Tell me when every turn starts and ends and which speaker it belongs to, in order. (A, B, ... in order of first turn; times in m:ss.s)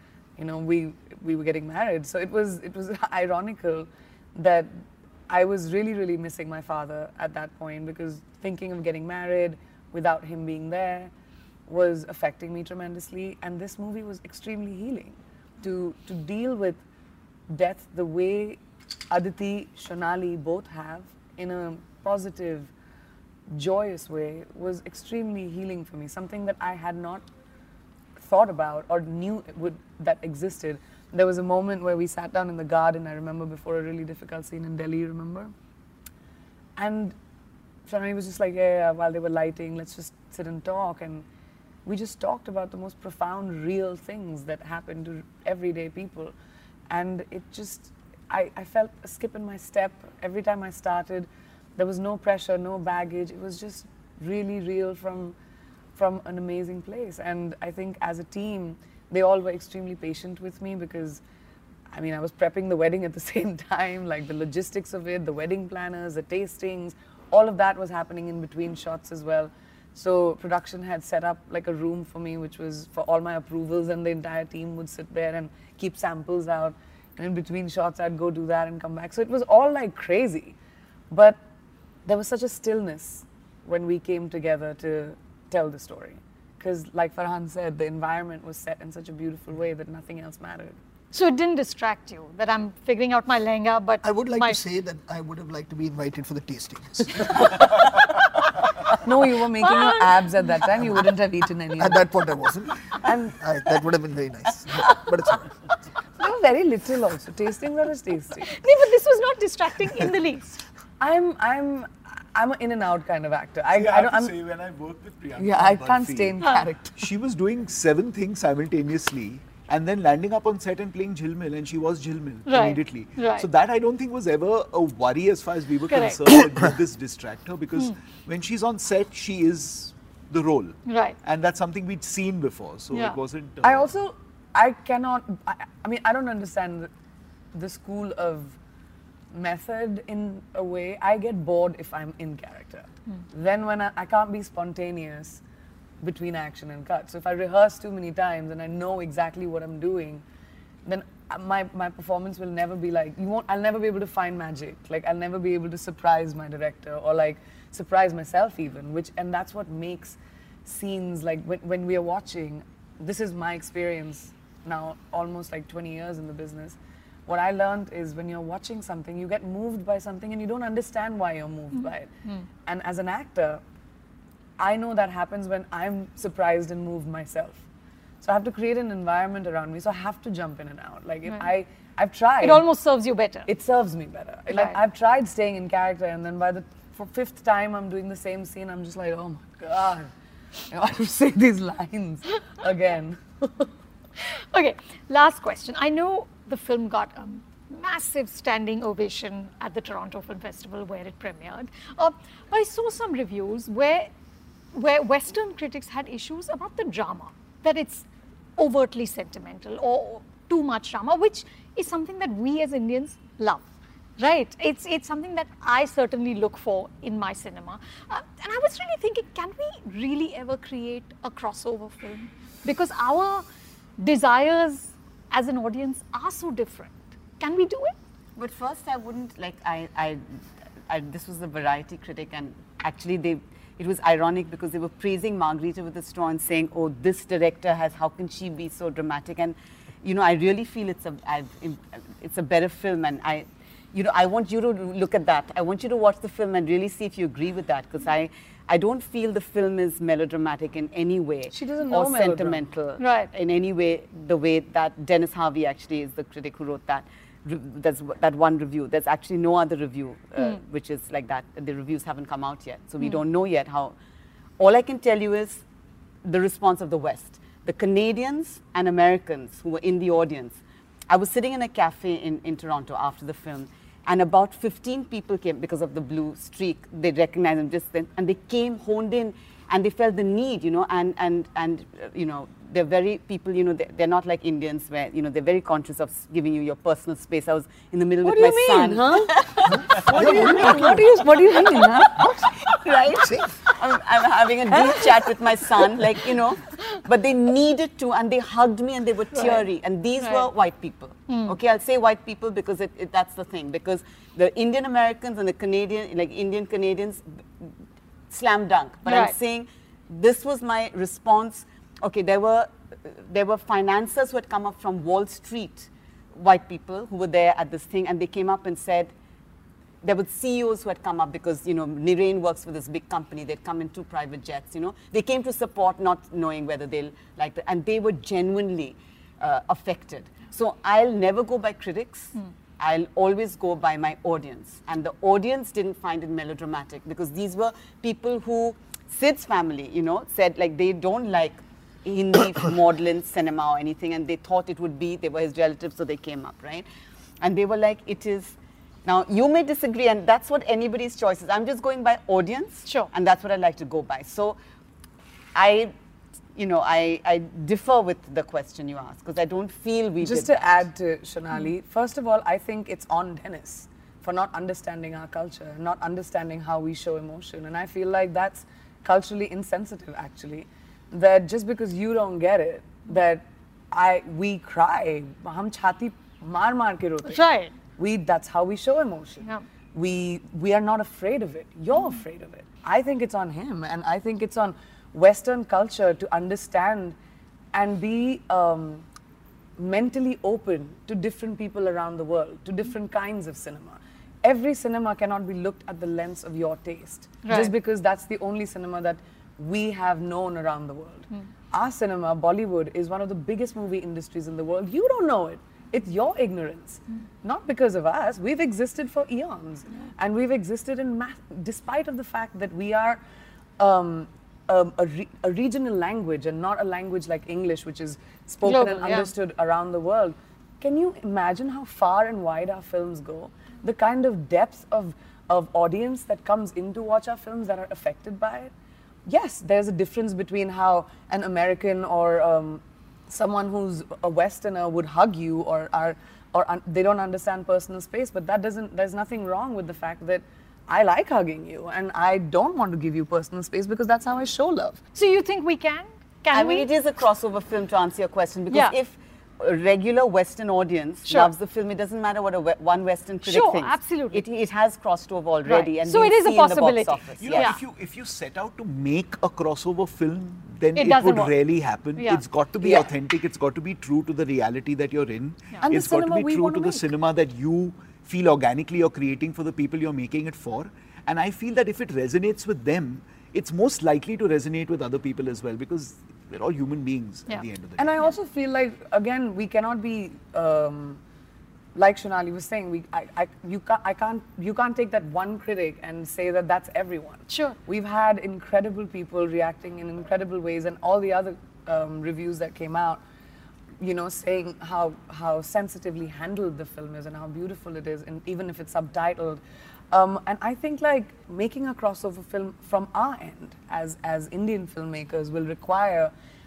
0:00.4-0:11.1 A
0:11.7-0:16.8 A
0:17.5-0:18.6 A
0:19.1-0:22.7 A
0:23.5-0:27.2 A
0:28.2-0:35.5 A
0:36.8-0:37.2 A
0:37.9-0:41.3 A
0:41.8-0:46.3 A
0:46.9-0:55.4 A
0:56.0-1:01.2 A
1:01.9-1:20.6 A
1:21.1-1:21.4 A
1:22.1-1:30.8 A
1:31.1-1:34.6 B
1:34.0-1:37.5 C
1:38.9-1:42.0 A
1:39.6-1:40.2 B
1:41.8-1:42.7 C
1:43.0-1:43.4 A
1:43.4-1:45.4 C
1:46.2-1:48.5 A
1:48.4-1:50.6 B
1:51.0-1:54.4 A
1:53.7-1:56.4 D
1:55.4-1:57.0 A
1:56.4-1:56.7 B
1:57.0-2:13.9 D
2:02.5-2:03.5 B
2:05.9-2:06.3 B
2:10.9-2:11.2 B
2:12.9-2:13.2 B
2:13.6-2:16.9 A
2:17.5-2:18.6 A
2:19.3-2:25.4 A
2:26.0-2:30.2 A
2:30.8-2:52.1 A
2:51.7-2:52.5 B
2:52.6-2:53.6 A
2:54.6-2:57.6 A
2:58.2-3:02.7 A
3:02.4-3:03.5 B
3:03.5-3:10.1 A
3:04.5-3:04.8 B
3:10.7-3:13.7 A
3:14.2-3:24.1 B
3:24.7-3:33.6 B
3:34.2-3:43.4 B
3:44.0-3:48.0 B
3:48.4-3:50.2 E
3:50.9-4:24.0 E
4:11.5-4:12.6 A
4:13.0-4:13.3 B
4:24.6-4:25.6 E
4:26.2-4:51.0 E
4:48.2-4:52.5 A
4:50.1-4:51.0 B
4:50.2-4:50.7 C
4:52.7-5:07.7 E
4:53.2-4:53.5 C
4:54.7-4:55.3 A
4:55.8-4:56.1 A
4:59.3-4:59.7 B
5:00.2-5:00.5 B
5:01.3-5:01.6 B
5:08.3-5:19.1 E
5:09.0-5:09.4 B
5:20.0-5:46.9 E
5:47.4-5:54.6 E
5:55.6-5:55.9 E
5:56.6-6:00.6 E
6:00.2-6:17.4 A
6:17.2-6:17.7 B
6:18.0-6:27.2 A
6:27.7-6:29.0 A
6:29.8-6:53.2 A
6:37.4-6:37.8 B
6:53.8-7:08.7 A
6:58.6-6:59.3 B
7:09.3-7:25.0 A
7:25.2-7:26.9 B
7:26.5-7:37.7 E
7:28.7-7:29.0 B
7:31.3-7:31.5 B
7:33.4-7:34.5 B
7:35.7-7:37.8 B
7:37.4-7:58.2 D
7:41.0-7:41.6 B
7:42.1-7:42.4 B
7:42.8-7:43.1 A
7:45.8-7:47.1 A
7:58.0-8:01.2 A
8:02.0-8:13.2 A
8:07.5-8:07.8 B
8:14.0-8:19.6 A
8:20.1-8:26.3 A